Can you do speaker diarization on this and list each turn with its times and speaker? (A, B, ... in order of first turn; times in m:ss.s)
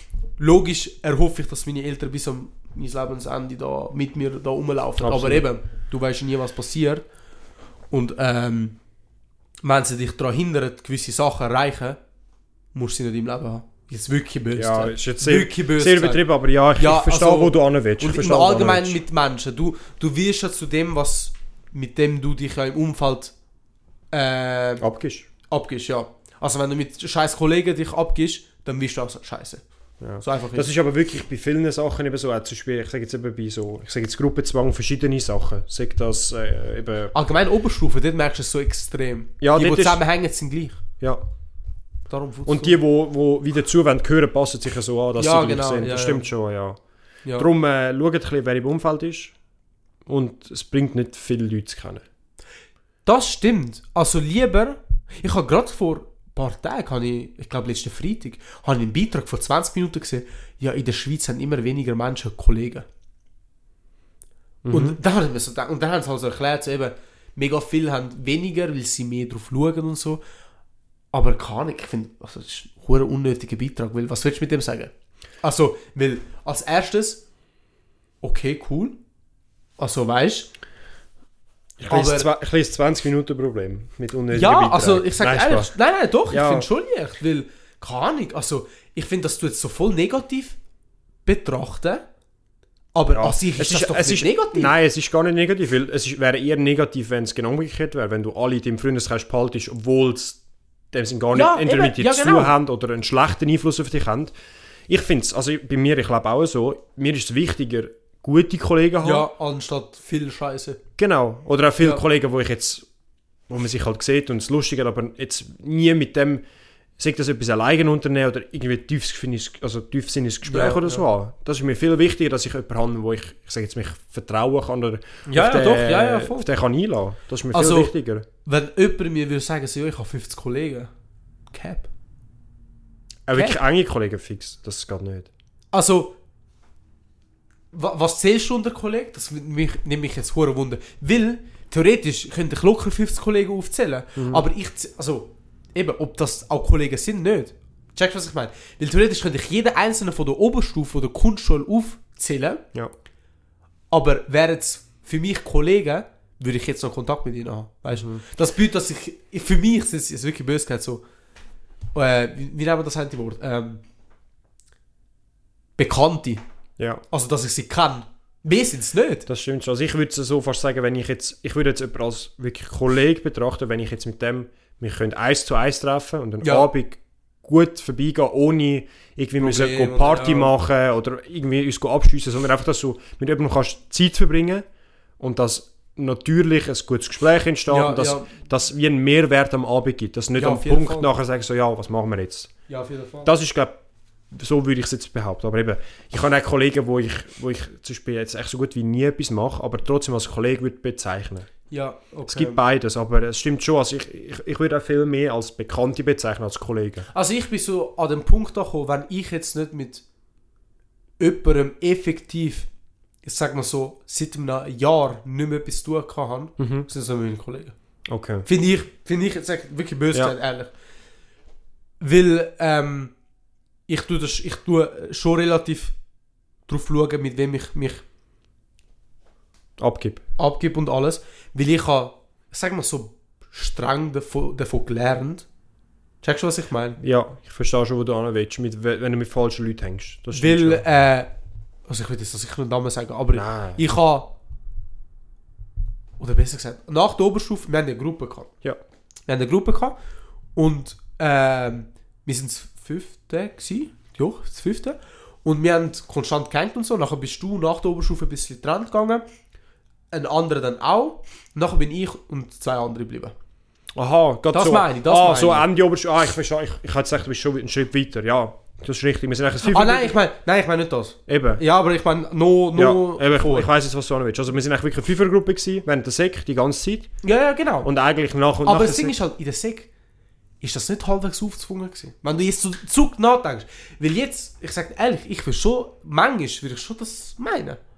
0:00.4-0:07.0 A
0:05.0-0:05.4 B
0:07.9-0:08.8 A
0:09.6-0:12.0 A
0:12.7-0:16.2 A
0:14.5-0:19.0 B
0:16.8-0:23.3 A
0:24.1-0:24.8 A
0:24.8-0:25.2 B
0:25.5-0:29.6 A
0:30.0-0:37.1 B
0:30.2-0:30.7 A
0:37.1-0:40.8 A
0:39.4-0:40.0 B
0:42.1-0:42.8 A
0:42.4-0:46.8 B
0:45.2-0:46.3 A
0:47.3-0:49.3 B
0:50.0-0:52.0 B
0:53.0-1:02.8 A
1:04.6-1:05.0 B
1:04.7-1:10.2 A
1:11.1-1:14.9 A
1:15.4-1:17.2 A
1:18.2-1:19.0 A
1:19.8-1:20.5 A
1:21.8-1:25.7 B
1:21.9-1:22.3 A
1:24.3-1:30.6 A
1:26.3-1:26.6 B
1:31.2-1:32.0 A
1:32.9-1:34.7 A
1:33.1-1:40.4 B
1:40.9-1:44.3 B
1:41.3-1:42.5 A
1:44.9-1:49.3 B
1:49.0-1:50.8 A
1:51.0-1:52.8 B
1:53.5-1:56.4 B
1:57.0-2:08.2 B
2:00.4-2:01.0 A
2:05.3-2:06.4 A
2:07.5-2:07.9 A
2:08.4-2:10.9 A
2:11.5-2:11.9 A
2:13.3-2:15.3 B
2:13.3-2:13.6 A
2:15.7-2:16.2 A
2:17.7-2:32.6 A
2:24.2-2:24.4 B
2:33.9-2:41.0 A
2:37.9-2:38.2 B
2:41.9-2:43.8 A
2:45.8-2:46.4 A
2:46.8-2:47.0 B
2:47.1-2:49.2 A
2:49.3-3:04.6 B
2:56.4-2:56.7 A
2:59.4-3:00.5 A
3:05.2-3:12.5 B
3:07.7-3:08.3 A
3:10.4-3:11.1 A
3:12.7-3:13.3 A
3:13.2-3:13.8 B
3:14.3-3:21.5 B
3:21.7-3:22.6 A
3:22.3-3:27.1 B
3:27.1-3:30.0 A
3:31.2-3:32.7 A
3:33.2-3:37.7 A
3:36.6-3:36.8 B
3:38.1-3:38.4 B
3:38.4-3:40.7 A
3:42.0-3:43.1 A
3:43.9-3:46.0 A
3:46.7-3:48.0 A
3:49.8-3:50.2 B
3:50.4-3:55.4 A
3:56.2-3:57.0 A
3:57.0-4:00.8 B
4:00.3-4:01.3 A
4:01.9-4:04.3 A
4:03.3-4:03.8 B
4:06.2-4:08.5 A
4:09.3-4:10.0 A
4:10.6-4:19.2 A
4:20.1-4:23.3 A
4:24.0-4:30.2 B
4:24.5-4:25.7 A
4:29.6-4:33.7 A
4:31.3-4:31.6 B
4:32.7-4:37.1 B
4:37.2-4:37.9 A
4:37.8-4:39.1 B
4:38.6-4:39.9 A
4:40.6-4:47.8 A